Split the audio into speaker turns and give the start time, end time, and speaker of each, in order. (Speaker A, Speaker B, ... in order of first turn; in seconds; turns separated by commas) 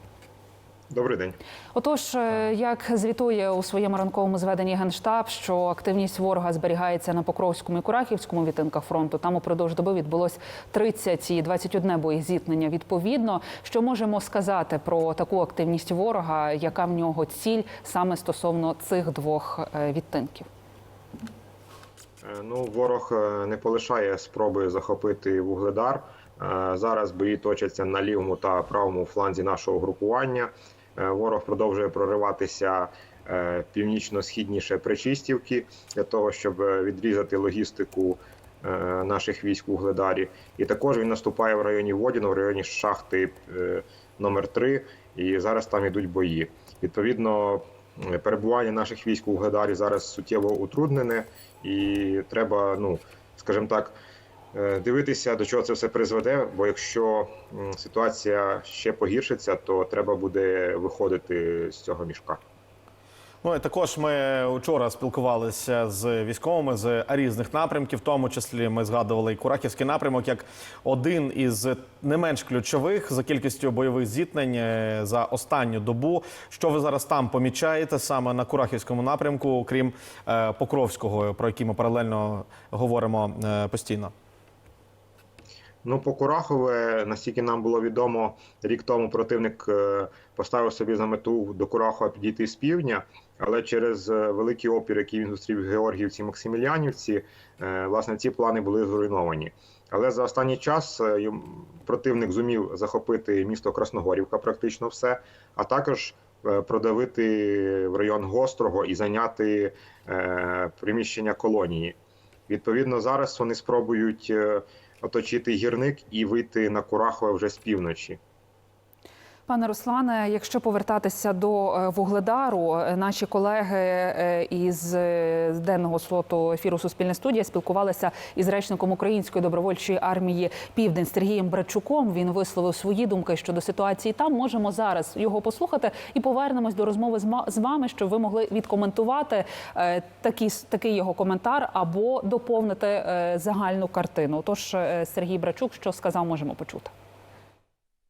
Speaker A: 0.9-1.4, Speaker B: 1.7-20.5, Speaker A: 22.2-54.0, Speaker A: 54.5-62.4, Speaker C: 63.4-84.1, Speaker A: 85.8-111.9, Speaker A: 112.5-118.2, Speaker B: 119.5-146.9